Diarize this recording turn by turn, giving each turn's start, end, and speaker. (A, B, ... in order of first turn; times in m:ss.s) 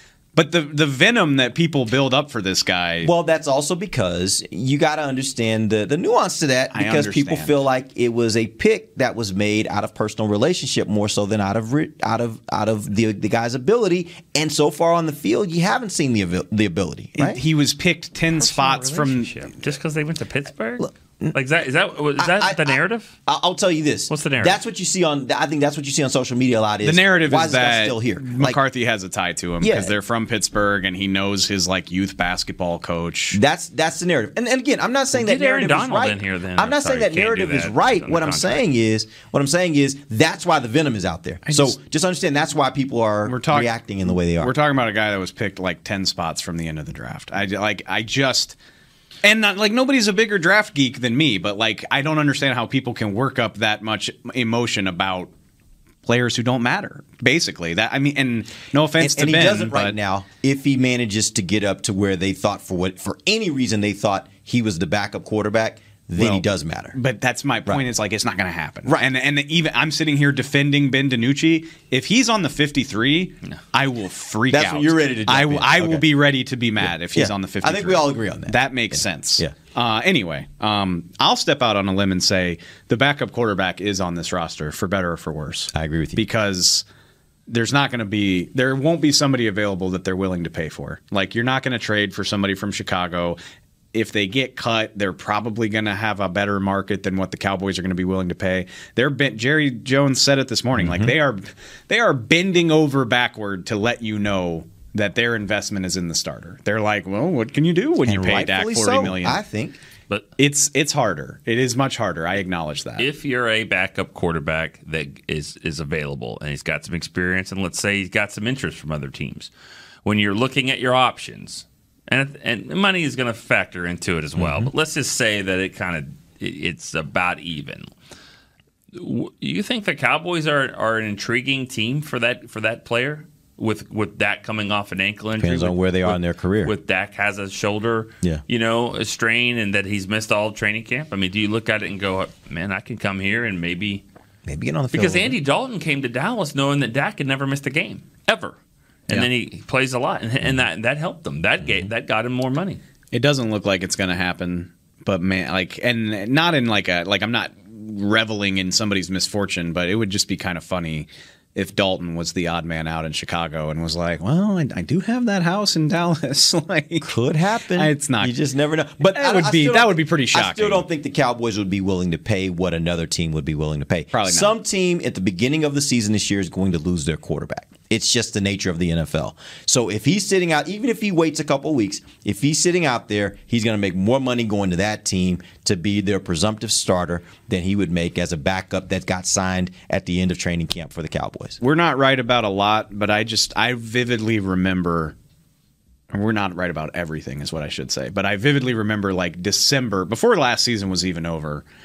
0:00.3-0:03.1 A
0:03.0-0:17.4 B
0:06.7-0:07.6 A
0:17.2-0:19.4 A
0:18.3-0:23.1 C
0:20.8-0:21.4 B
0:22.2-0:28.6 B
0:24.1-0:24.6 C
0:26.8-0:33.4 A
0:29.6-0:30.0 B
0:33.3-0:44.5 B
0:35.1-0:38.6 C
0:41.4-0:41.8 A
0:43.2-0:48.6 A
0:49.2-0:55.3 A
0:56.0-0:59.9 A
0:59.0-1:07.0 B
1:06.2-1:26.8 A
1:14.5-1:16.0 B
1:17.1-1:19.5 B
1:25.7-1:26.2 B
1:27.5-1:33.4 A
1:33.9-1:49.4 A
1:40.8-1:41.1 B
1:48.0-1:49.8 B
1:50.4-1:53.1 A
1:53.0-1:59.5 C
2:00.0-2:07.9 C
2:04.4-2:04.7 B
2:08.9-2:24.0 C
2:15.4-2:16.7 B
2:24.4-2:25.4 B
2:24.9-2:28.6 C
2:29.1-2:32.8 C
2:33.1-2:47.1 A
2:47.0-3:11.6 B
2:47.7-2:48.3 A
2:49.1-2:50.8 A
2:54.1-2:54.5 A
3:11.6-3:15.1 A
3:16.1-3:21.6 A